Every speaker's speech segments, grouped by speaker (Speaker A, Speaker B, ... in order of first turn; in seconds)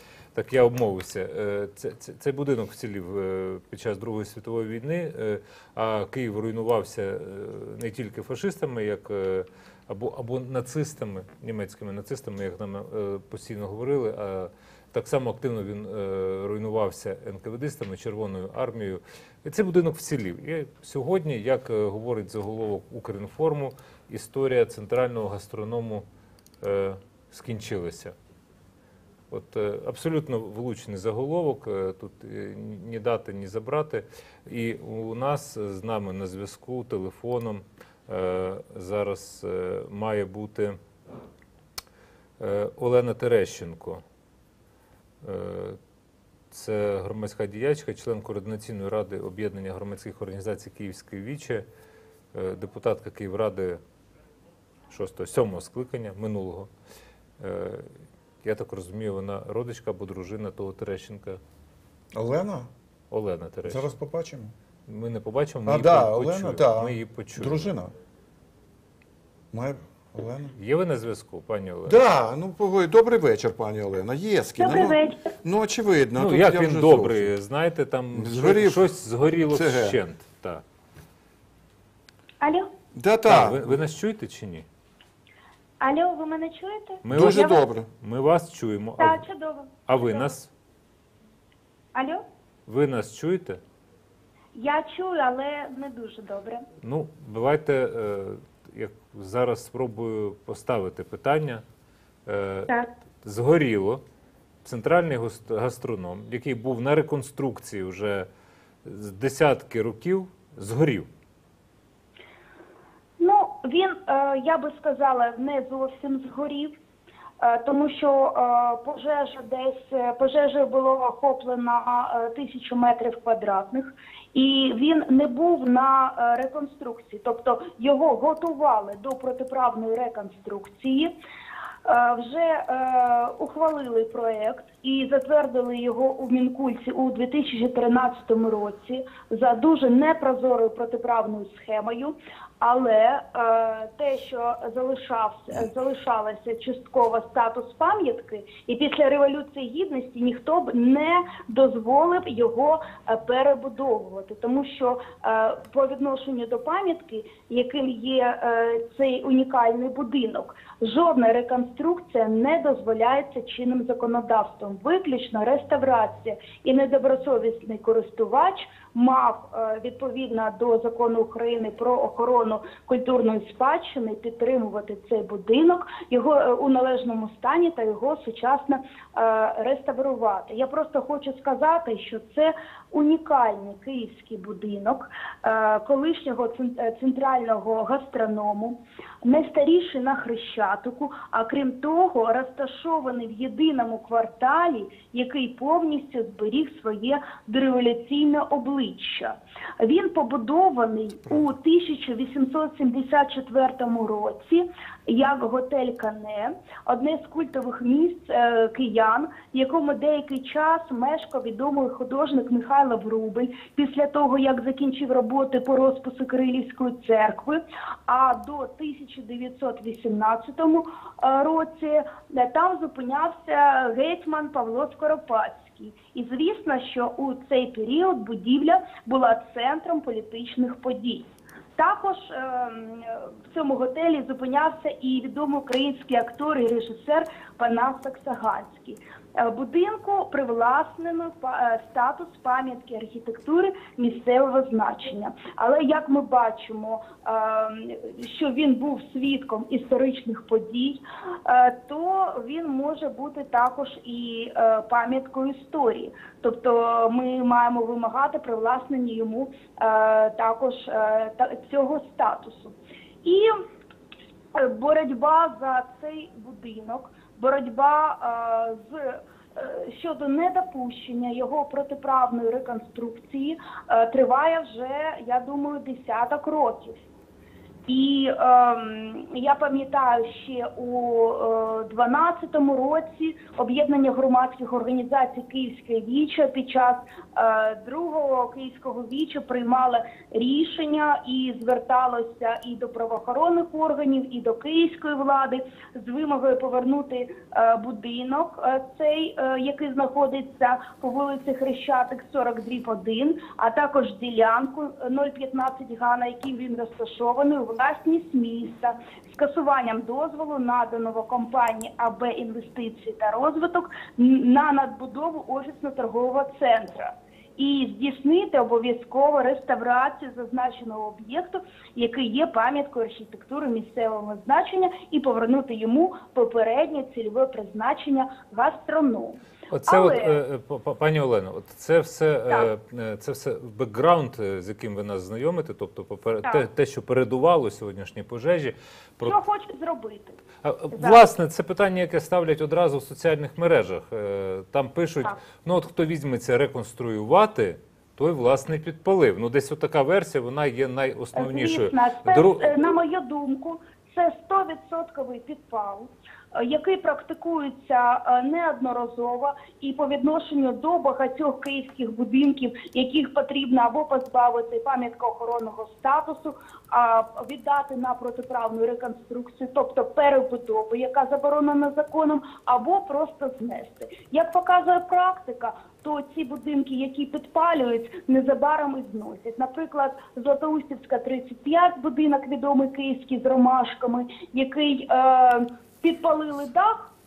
Speaker A: 0.3-26.0, 26.6-28.1, 29.3-40.8, 42.4-44.0, 45.2-45.8, 46.5-51.6, 52.3-53.8, 54.9-56.7, 57.4-57.9, 58.4-61.4, 63.1-63.9, 64.9-67.7, 70.5-72.0, 76.2-80.6, 83.2-84.7, 87.0-89.2, 89.9-90.5, 92.7-93.6, 96.8-101.6, 102.2-104.0, 104.6-108.3, 108.8-111.1, 329.7-339.4, 340.6-352.7
Speaker B: 62.1-62.7, 63.7-64.5, 65.7-67.9, 69.5-70.6, 71.8-77.3, 78.1-78.8, 79.5-80.0, 82.9-83.7, 87.1-87.9
Speaker C: 74.6-75.3, 82.4-82.7, 85.8-87.6, 89.0-90.3, 91.9-92.2, 94.5-96.6, 113.2-116.7, 117.4-131.1, 131.8-263.6, 264.5-277.0, 277.9-330.4, 339.2-340.4, 340.9-341.2, 351.3-387.1